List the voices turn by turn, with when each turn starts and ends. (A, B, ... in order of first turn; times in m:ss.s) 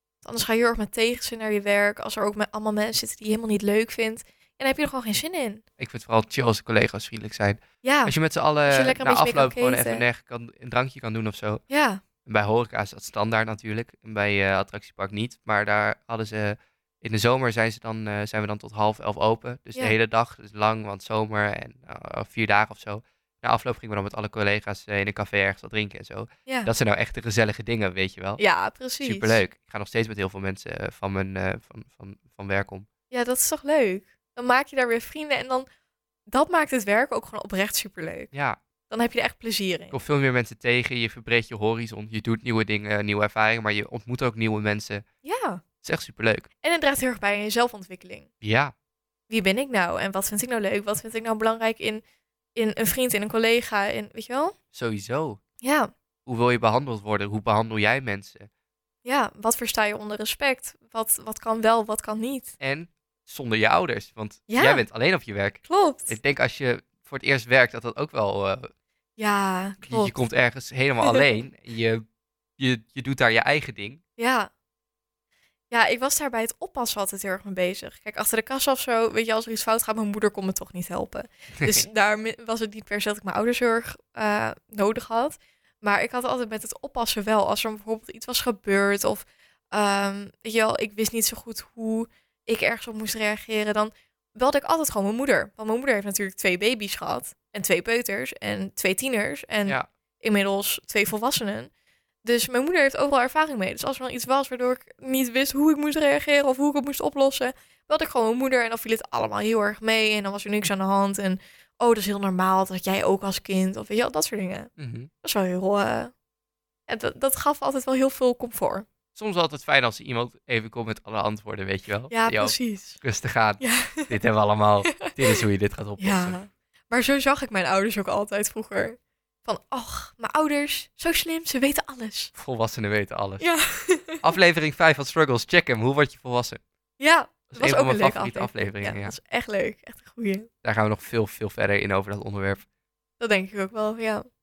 0:00.2-0:05.6 A
0:05.8-0:11.6 B
0:07.8-0:08.2 A
0:08.7-0:10.0 A
0:11.7-0:12.0 A
0:12.2-0:28.4 B
0:28.4-0:29.4 A
0:29.0-0:32.9 B
0:33.1-0:35.7 A
0:36.3-0:38.3 A
0:38.3-0:38.6 B
0:38.9-0:40.0 A
0:39.9-0:45.0 B
0:45.2-0:45.6 A
0:45.8-0:46.5 B
0:46.6-0:48.3 A
0:48.4-0:48.7 B
0:49.3-0:52.0 A
0:52.6-0:54.6 A
0:54.7-0:55.4 B
0:55.6-0:55.9 A
0:56.3-0:58.5 B
0:59.0-1:02.5 A
1:02.6-1:08.7 B
1:04.5-1:04.8 A
1:05.7-1:06.2 A
1:09.2-1:10.1 A
1:09.8-1:12.0 B
1:12.6-1:14.0 B
1:14.2-1:14.5 A
1:15.7-1:41.7 A
1:21.6-1:21.8 B
1:42.2-1:54.7 A
1:54.8-1:55.1 B
1:55.2-1:56.1 A
1:56.9-1:58.9 A
1:59.1-2:06.4 B
2:02.1-2:03.0 A
2:03.6-2:04.1 A
2:04.9-2:05.4 A
2:06.0-2:12.3 A
2:12.4-2:13.4 B
2:13.4-2:14.2 A
2:14.2-2:16.6 B
2:17.0-2:20.5 A
2:17.5-2:19.2 B
2:20.6-2:22.6 B
2:23.2-2:24.3 A